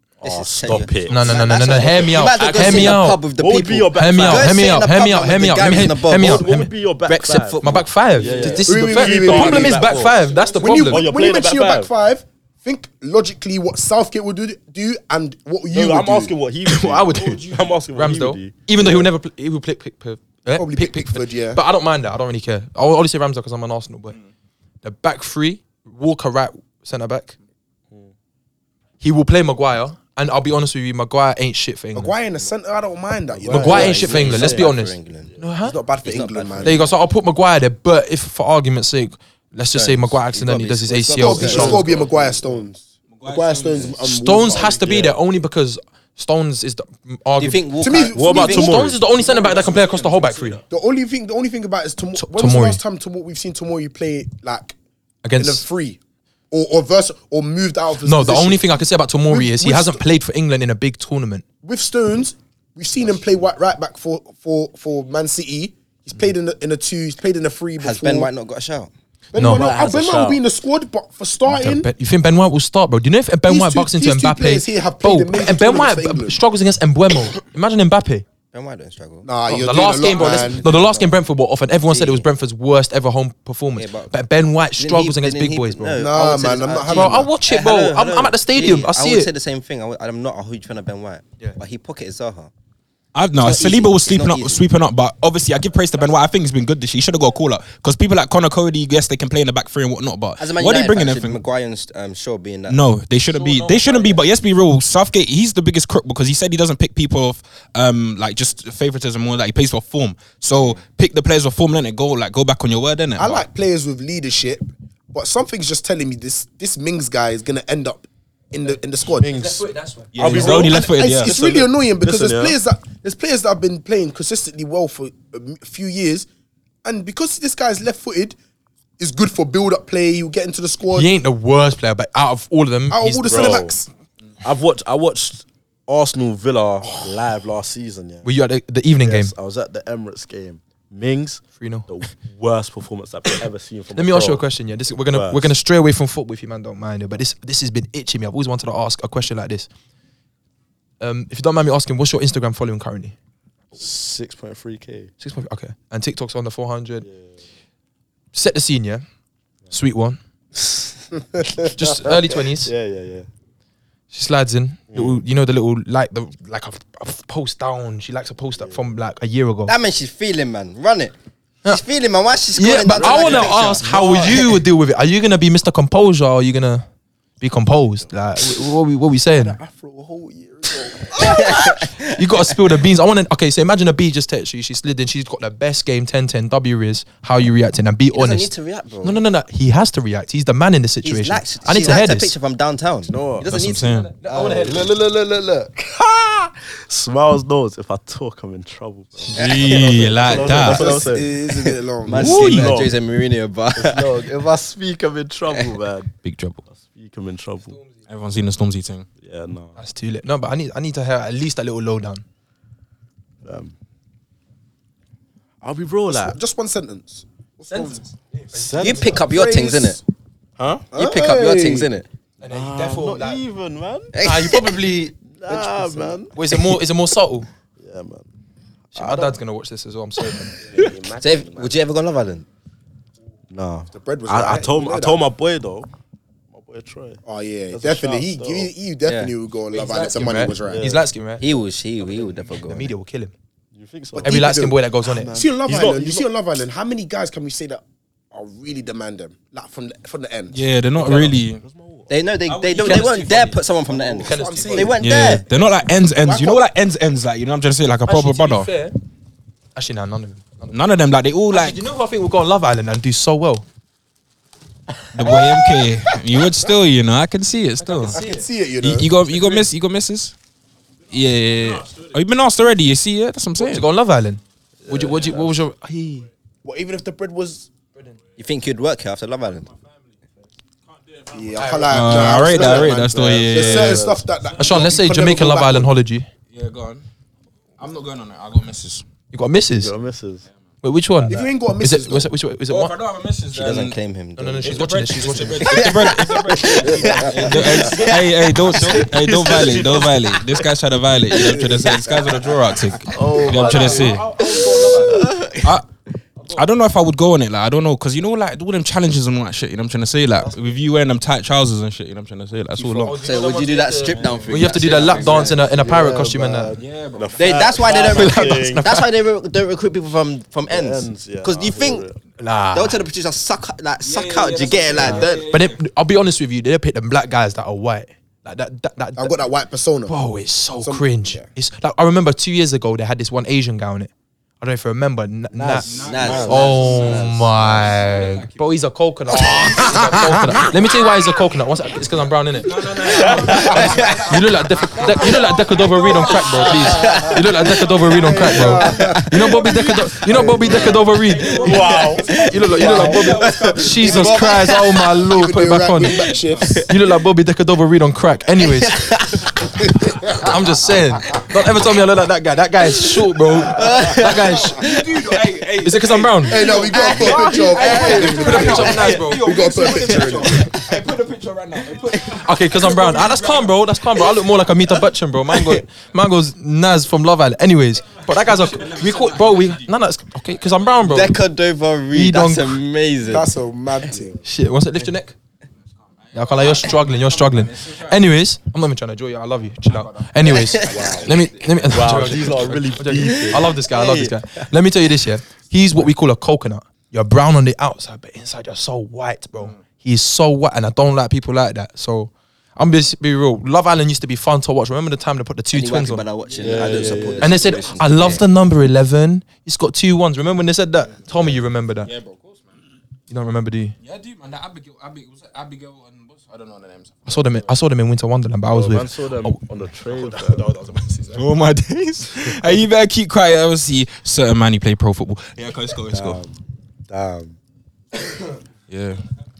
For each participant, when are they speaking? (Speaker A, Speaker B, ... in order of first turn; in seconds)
Speaker A: 0.2-1.4, 2.6-4.7, 6.2-11.9, 15.7-19.1, 33.4-34.7, 35.3-35.5, 41.6-42.2, 48.1-50.5, 69.4-70.4, 119.1-119.7, 120.2-122.6, 133.3-133.8, 134.4-138.3, 139.0-144.4, 145.1-145.5, 153.8-155.1, 157.0-157.4, 160.6-160.8, 162.1-163.3, 164.9-165.2, 168.6-168.8, 173.8-174.5, 179.7-180.2, 193.1-193.5, 194.3-201.3, 202.2-202.9, 203.8-206.1, 206.7-207.8, 209.2-209.8, 213.4-213.7, 215.6-216.4, 218.5-219.2, 220.6-220.9, 222.5-224.1, 225.3-226.6, 227.8-228.3, 228.9-229.4, 233.5-235.9, 236.5-238.7, 240.6-241.1, 243.7-244.5, 245.2-246.3, 251.0-252.1, 253.9-254.2, 274.9-275.5, 282.5-284.2, 289.7-290.5, 298.9-300.5, 303.1-304.1, 315.5-318.9, 320.7-322.2, 335.6-336.8, 343.2-343.6, 351.6-352.2, 390.9-391.3, 391.9-393.7, 406.6-407.8, 418.7-421.4, 426.1-427.6
Speaker B: 0.2-6.5, 7.2-8.5, 33.5-35.3, 36.0-36.9, 39.7-42.1, 47.4-48.9, 67.8-68.9, 78.5-79.3, 80.0-81.1, 81.9-82.3, 83.8-84.1, 84.8-92.5, 93.4-94.7, 100.4-102.8, 169.7-174.6, 181.1-182.5, 188.1-189.2, 191.0-194.1, 199.4-200.5, 201.4-204.3, 205.5-205.8, 218.8-220.0, 220.9-222.1, 224.1-224.8, 231.2-232.5, 239.1-239.3, 241.4-242.9, 252.1-255.4, 278.4-279.7, 293.5-300.4, 301.3-302.7, 304.4-305.8, 313.2-315.7, 317.4-322.1, 322.7-325.5, 335.6-338.0, 343.0-344.4, 346.0-347.6, 348.3-355.2, 358.6-359.5, 363.5-365.1, 366.7-369.2, 369.8-370.9, 371.9-373.1, 375.5-375.8, 381.0-383.5, 390.4-391.3, 393.2-394.4, 405.7-408.4
Speaker C: 1.1-3.2, 3.9-11.1, 16.6-24.2, 24.8-27.4, 29.0-32.1, 33.5-35.8, 36.6-41.9, 44.0-47.6, 48.3-50.6, 52.2-52.8, 55.2-55.7, 58.0-61.5, 69.4-69.8, 71.5-78.2, 79.5-86.0, 86.9-89.3, 119.2-120.6, 130.9-133.7, 138.2-139.3, 141.6-141.9, 143.9-149.7, 151.0-153.2, 155.2-157.1, 158.3-159.1, 159.7-160.2, 161.7-162.7, 164.1-169.7, 172.5-176.9, 177.4-179.6, 181.2-192.3, 193.9-194.9, 209.8-212.2, 217.7-219.4, 222.4-223.4, 224.2-227.5, 228.9-230.6, 239.7-241.5, 242.6-243.3, 244.2-245.4, 252.8-253.6, 254.2-254.9, 258.1-259.0, 259.8-260.8, 261.5-263.6, 267.8-268.5, 273.6-276.3, 281.5-282.3, 284.6-286.3, 289.3-289.9, 290.8-292.9, 294.4-295.9, 303.2-305.3, 312.8-316.8, 317.8-319.1, 322.4-323.0, 325.1-329.4, 330.1-356.2, 356.9-359.1, 360.4-364.9, 365.8-366.6, 367.8-369.5, 372.4-381.4, 382.1-382.8, 384.4-385.4, 386.3-406.2, 407.4-412.1, 413.3-413.9, 417.3-421.0
Speaker D: 8.6-16.3, 20.6-21.6, 31.9-34.1, 35.6-36.9, 41.1-45.2, 47.8-48.8, 50.7-54.8, 55.4-56.0, 56.5-58.7, 59.3-60.0, 61.6-68.3, 69.3-71.9, 73.5-76.4, 79.2-81.1, 86.0-87.3, 113.2-119.3, 120.3-126.3, 126.8-128.4, 129.0-131.1, 132.9-133.9, 173.0-174.2, 179.5-181.3, 200.5-202.4, 216.1-218.1, 219.1-220.0, 220.9-221.9, 230.6-231.8, 233.9-235.2, 237.2-240.9, 244.1-250.6, 254.0-255.0, 256.2-256.7, 268.1-269.1, 276.6-277.7, 281.3-285.9, 291.3-292.3, 296.8-297.8, 329.2-330.2, 330.8-331.5, 348.0-351.1, 352.7-353.4, 354.0-356.8, 359.8-360.6, 366.4-370.7, 383.2-384.4
Speaker E: 43.1-44.0, 49.4-49.9, 93.2-101.4, 102.7-113.5, 120.1-121.3, 193.4-194.1, 199.3-201.0, 202.2-202.9, 206.2-206.6, 208.1-209.1, 250.5-251.6, 252.5-253.6, 255.0-258.7, 260.7-261.8, 265.1-268.2, 268.8-270.4, 271.1-273.9, 281.9-284.1, 286.5-287.1, 287.8-289.1, 292.7-294.0, 294.6-304.3, 306.5-315.6, 316.8-317.7, 324.0-325.8, 335.9-338.6, 339.4-340.8, 342.6-348.6, 350.7-354.7, 356.0-356.8, 363.8-373.8, 378.3-379.9, 386.3-388.3, 389.9-392.5, 406.5-407.2, 412.0-412.8, 414.0-417.7, 421.3-426.4, 428.9-429.2